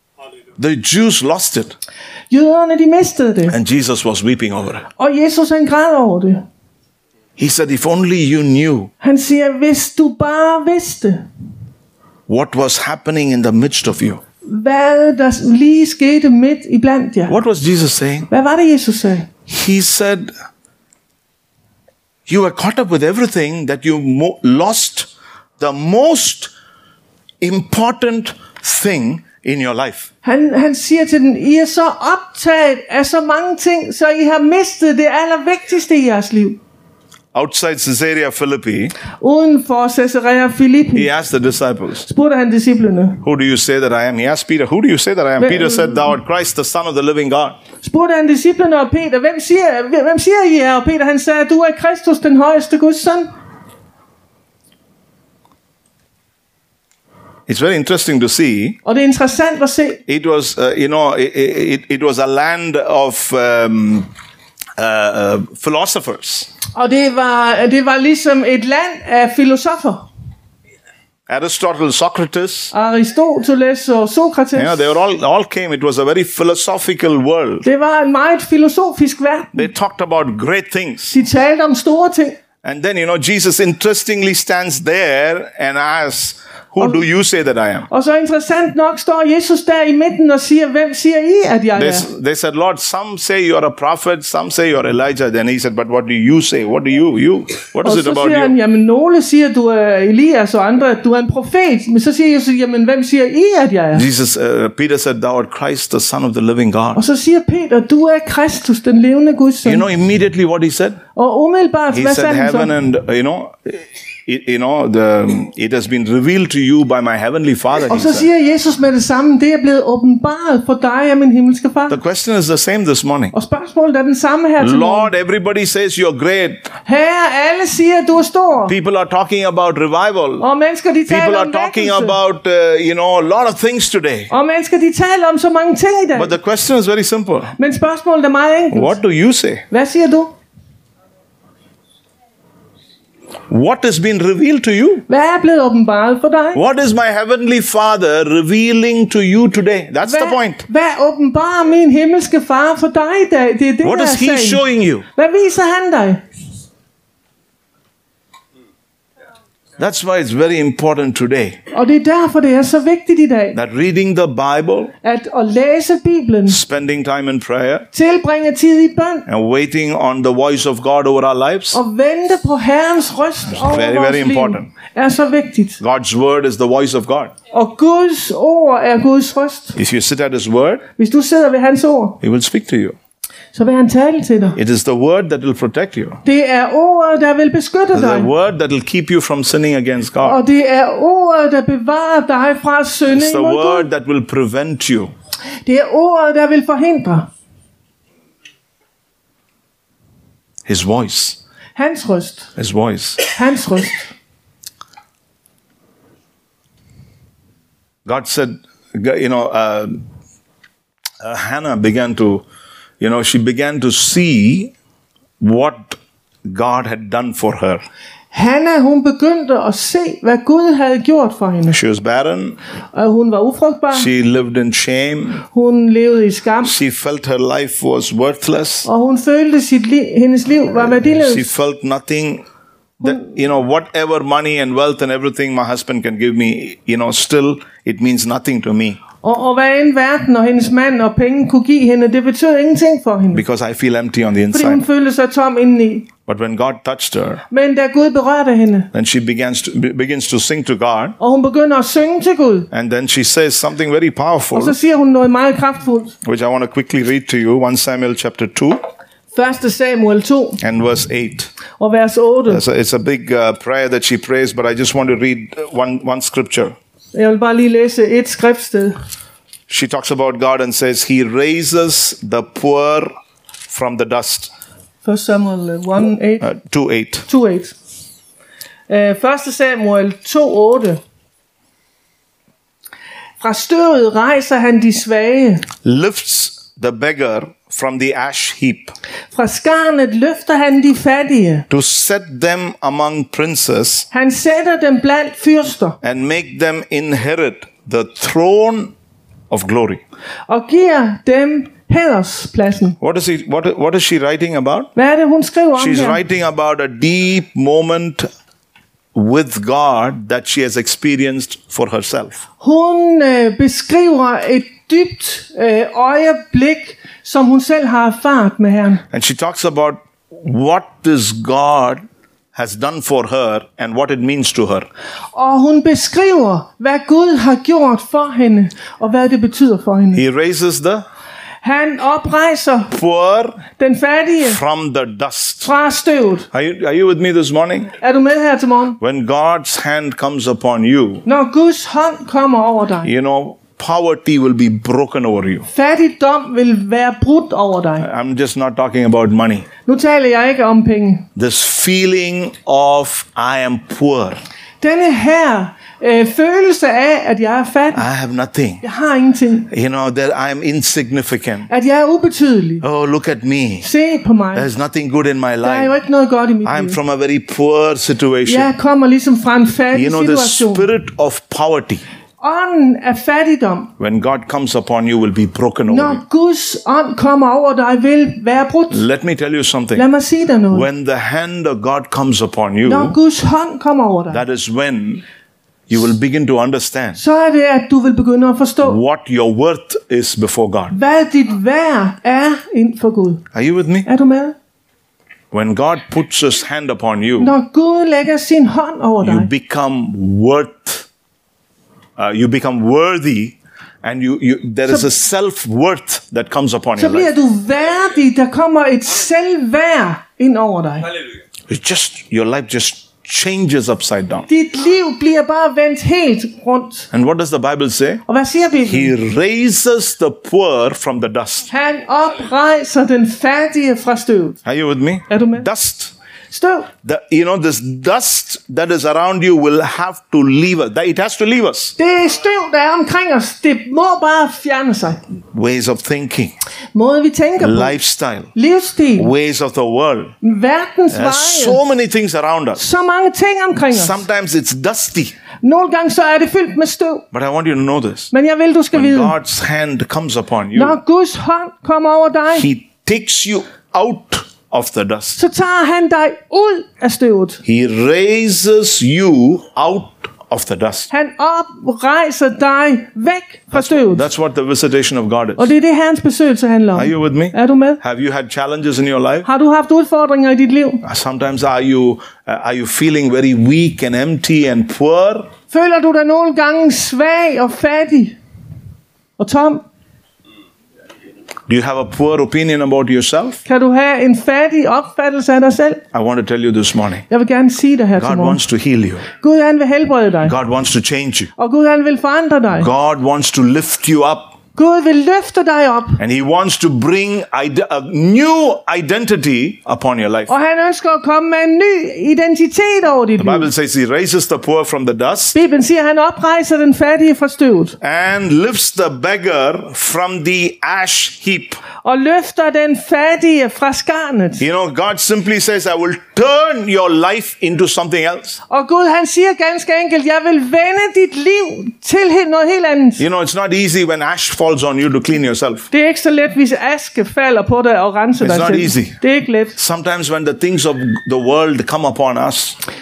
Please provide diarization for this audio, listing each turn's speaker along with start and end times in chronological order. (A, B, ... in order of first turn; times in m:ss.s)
0:00.6-0:01.8 A
0:02.3-0:03.6 B
0:03.5-0:04.9 A
0:05.0-0:06.4 B
0:07.4-0:08.9 A
0:09.0-0:11.3 B
0:12.3-0:14.2 A
0:14.4-0:17.4 B
0:17.3-0:18.3 A
0:18.3-0:19.3 B
0:19.5-0:20.3 A
0:22.3-0:26.5 A
0:27.4-0:30.1 A
0:30.2-0:36.6 B
0:37.3-0:39.0 A
0:39.2-0:41.1 B
0:41.0-0:42.1 A
0:42.1-0:43.2 B
0:43.2-0:47.6 A
0:45.4-0:46.2 B
0:47.8-0:53.3 B
0:57.5-0:58.8 A
0:58.8-1:00.0 B
1:00.1-1:04.1 A
1:04.8-1:06.5 A
1:06.8-1:10.1 B
1:11.3-1:12.7 A
1:12.7-1:14.9 B
1:14.6-1:17.6 A
1:17.6-1:19.7 B
1:19.5-1:21.2 A
1:21.1-1:22.4 B
1:22.6-1:27.9 A
1:27.9-1:32.1 B
1:31.8-1:38.5 A
1:37.8-1:44.0 B
1:43.9-1:47.0 A
1:47.0-1:49.8 B
1:49.6-1:51.0 A
1:51.1-1:52.7 B
1:51.9-1:58.3 A
1:57.9-2:02.0 B
2:01.9-2:03.3 A
2:03.3-2:05.1 B
2:04.6-2:06.7 A
2:06.9-2:08.7 B
2:08.7-2:10.5 A
2:10.4-2:12.2 B
2:11.1-2:14.3 A
2:14.3-2:16.4 B
2:16.1-2:17.6 A
2:17.6-2:19.0 B
2:18.7-2:19.6 A
2:19.7-2:20.3 B
2:23.5-2:25.0 A
2:25.1-2:26.6 B
2:26.5-2:30.6 A
2:30.0-2:36.2 B
2:33.8-2:35.1 A
2:39.8-2:41.6 A
2:41.7-2:43.6 B
2:43.5-2:44.9 A
2:45.0-2:46.6 B
2:46.5-2:47.9 A
2:47.9-2:49.3 B
2:49.3-2:51.8 A
2:51.7-2:55.8 B
2:53.5-2:54.7 A
2:55.8-2:57.3 A
2:57.5-2:59.8 B
2:59.8-3:00.8 A
3:01.0-3:02.2 B
3:02.2-3:03.0 A
3:03.5-3:04.6 B
3:04.6-3:06.2 A
3:06.2-3:08.3 B
3:07.9-3:10.4 A
3:10.2-3:13.9 B
3:13.1-3:15.1 A
3:15.6-3:17.3 B
3:20.6-3:21.4 A
3:21.8-3:22.5 B
3:22.6-3:23.3 A
3:23.3-3:24.1 B
3:28.1-3:30.0 A
3:31.2-3:32.4 A
3:33.0-3:34.7 A
3:35.4-3:37.8 A
3:38.3-3:41.8 B
3:41.7-3:42.6 A
3:42.9-3:44.1 B
3:43.9-3:45.4 A
3:45.5-3:46.8 B
3:46.6-3:48.9 A
3:48.9-3:51.5 B
3:51.0-3:52.4 A
3:53.0-3:59.0 A
3:59.2-4:03.4 B
4:03.3-4:04.8 A
4:04.5-4:06.1 B
4:06.3-4:07.4 A
4:07.5-4:08.9 B
4:08.9-4:11.2 A
4:11.2-4:12.7 B
4:12.7-4:14.8 A
4:14.5-4:16.1 B
4:16.2-4:18.8 A
4:19.3-4:20.6 B
4:20.6-4:21.5 A
4:21.8-4:22.6 B
4:22.5-4:26.8 A
4:27.1-4:29.0 B
4:29.7-4:33.1 A
4:33.7-4:34.5 A
4:35.0-4:36.5 B
4:36.4-4:37.3 A
4:37.3-4:37.8 B
4:38.9-4:41.0 B
4:43.4-4:45.7 B
4:45.8-4:48.9 A
4:49.3-4:51.7 B
4:51.7-4:54.1 A
4:54.1-4:56.0 B
4:56.0-4:58.9 A
4:59.5-5:00.0 A
5:00.5-5:03.0 B
5:03.0-5:04.9 A
5:05.0-5:06.2 B
5:05.8-5:08.3 A
5:09.1-5:12.4 A
5:12.6-5:19.0 B
5:19.1-5:22.0 A
5:22.5-5:24.9 A
5:25.4-5:30.2 B
5:30.1-5:31.1 A
5:31.6-5:32.9 B
5:32.9-5:33.6 A
5:33.8-5:34.6 B
5:34.4-5:35.7 A
5:35.6-5:36.5 B
5:36.5-5:37.9 A
5:38.0-5:39.0 B
5:39.0-5:41.2 A
5:41.3-5:43.1 B
5:43.0-5:45.7 A
5:45.7-5:48.1 B
5:48.0-5:49.7 A
5:49.9-5:51.3 B
5:51.4-5:54.4 A
5:54.8-5:58.1 B
5:57.9-5:58.8 A
5:58.8-5:59.7 B
5:59.7-6:01.7 A
6:01.7-6:02.8 B
6:02.8-6:03.9 A
6:03.8-6:04.7 B
6:04.5-6:06.0 A
6:05.6-6:07.0 B
6:06.6-6:08.7 A
6:08.5-6:10.9 B
6:09.9-6:12.0 A
6:12.4-6:13.9 B
6:14.0-6:16.2 A
6:15.9-6:19.0 B
6:18.9-6:20.1 A
6:20.0-6:20.9 B
6:20.7-6:23.2 A
6:22.8-6:24.4 B
6:24.3-6:25.2 A
6:25.9-6:27.2 A
6:27.2-6:29.0 B
6:28.8-6:31.0 A
6:30.9-6:33.4 B
6:33.5-6:34.1 A
6:34.0-6:34.6 B
6:35.5-6:37.5 A
6:37.4-6:39.5 B
6:39.2-6:41.1 A
6:42.2-6:47.3 A
6:47.0-6:51.1 B
6:51.7-6:54.5 A
6:54.5-6:57.1 B
6:57.1-6:58.2 A
6:58.3-6:59.1 B
6:58.8-7:01.7 A
7:01.7-7:04.6 B
7:04.6-7:06.1 A
7:05.3-7:05.7 B
7:06.5-7:06.9 B
7:07.0-7:12.0 A
7:12.0-7:15.2 B
7:15.5-7:16.5 A
7:17.0-7:18.0 B
7:17.6-7:18.5 A
7:18.5-7:19.3 B
7:19.2-7:20.4 A
7:20.4-7:21.8 B
7:21.1-7:22.8 A
7:22.8-7:24.2 B
7:23.9-7:25.4 A
7:25.6-7:27.2 B
7:27.3-7:28.3 A
7:28.3-7:29.4 B
7:28.9-7:31.0 A
7:30.7-7:32.7 B
7:32.5-7:35.4 A
7:35.4-7:37.6 B
7:37.6-7:41.1 A
7:41.1-7:44.3 B
7:43.7-7:45.7 A
7:45.6-7:48.0 B
7:47.0-7:49.5 A
7:49.4-7:51.0 B
7:51.0-7:55.5 A
7:55.7-7:58.4 B
7:59.4-7:59.8 B
8:01.7-8:03.6 A
8:03.6-8:06.0 B
8:06.1-8:07.3 A
8:07.3-8:08.6 B
8:08.2-8:09.2 A
8:09.3-8:10.6 B
8:10.4-8:11.5 A
8:11.6-8:12.9 B
8:12.7-8:14.6 A
8:14.8-8:16.2 B
8:16.2-8:20.5 A
8:20.5-8:23.7 B
8:23.4-8:25.6 A
8:25.5-8:28.0 B
8:28.0-8:31.8 A
8:32.0-8:34.6 B
8:34.6-8:38.6 A
8:38.7-8:43.2 B
8:43.2-8:45.9 A
8:45.9-8:49.8 B
8:48.4-8:49.2 A
8:49.8-8:52.8 A